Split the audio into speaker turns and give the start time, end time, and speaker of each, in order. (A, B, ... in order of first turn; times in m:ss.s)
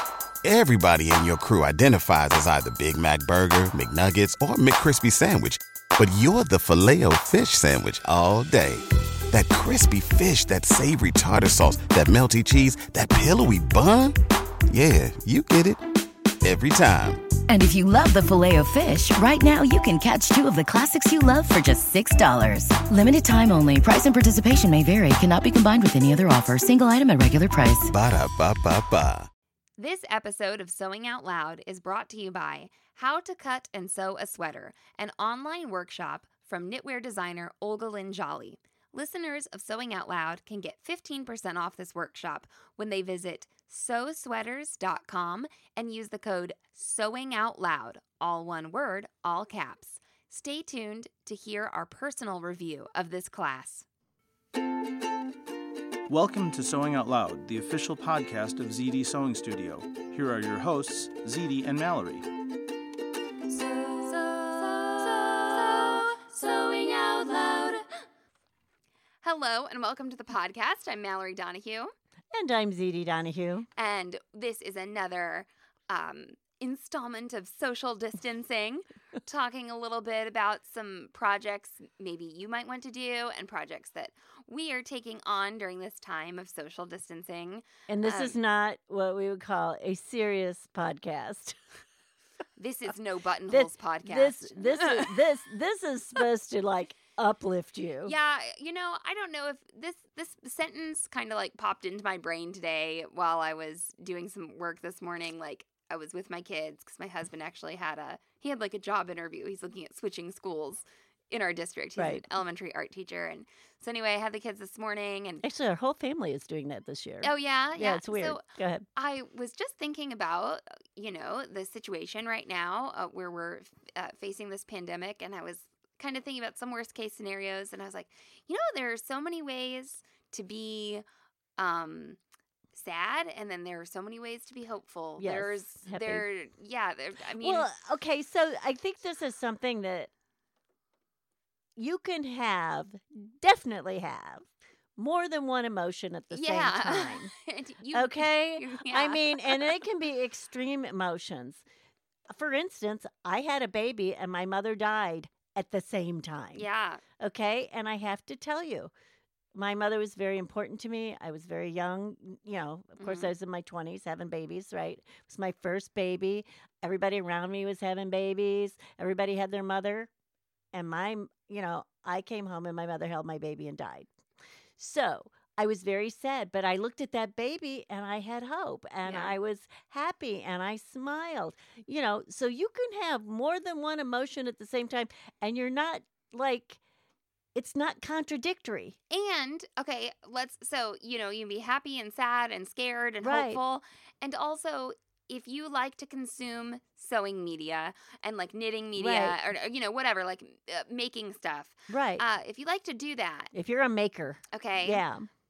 0:00.4-0:14.2 A
0:14.7-0:15.8 A
0:16.4-0:17.3 A
0:17.5-0:27.9 B
0:27.9-0:29.3 A
0:29.8-0:53.8 C
0:56.1-1:02.3 D
1:03.5-1:07.8 C
1:09.2-1:11.9 C
1:12.3-1:13.7 E
1:13.8-1:28.4 C
1:27.9-1:31.6 E
1:32.6-1:35.2 C
1:33.5-1:38.1 E
1:38.0-1:55.4 C
1:52.0-1:52.2 E
1:55.4-1:58.9 E
1:57.2-1:58.4 C
1:59.0-2:11.0 C
2:11.6-2:12.2 C
2:12.7-2:17.7 C
2:15.2-2:16.2 E
2:17.4-2:20.1 E
2:21.8-2:27.3 E
2:26.3-2:29.7 C
2:27.9-2:31.6 E
2:32.3-2:36.6 E
2:36.6-2:37.0 C
2:37.2-2:38.9 E
2:39.5-2:50.1 E
2:43.0-2:43.3 C
2:50.7-2:54.1 E
2:54.8-3:06.8 E
2:59.0-2:59.3 C
3:07.6-3:09.0 E
3:09.1-3:23.5 C
3:13.2-3:13.6 E
3:19.0-3:19.4 E
3:21.9-3:22.2 E
3:23.5-3:25.3 E
3:24.5-3:25.0 C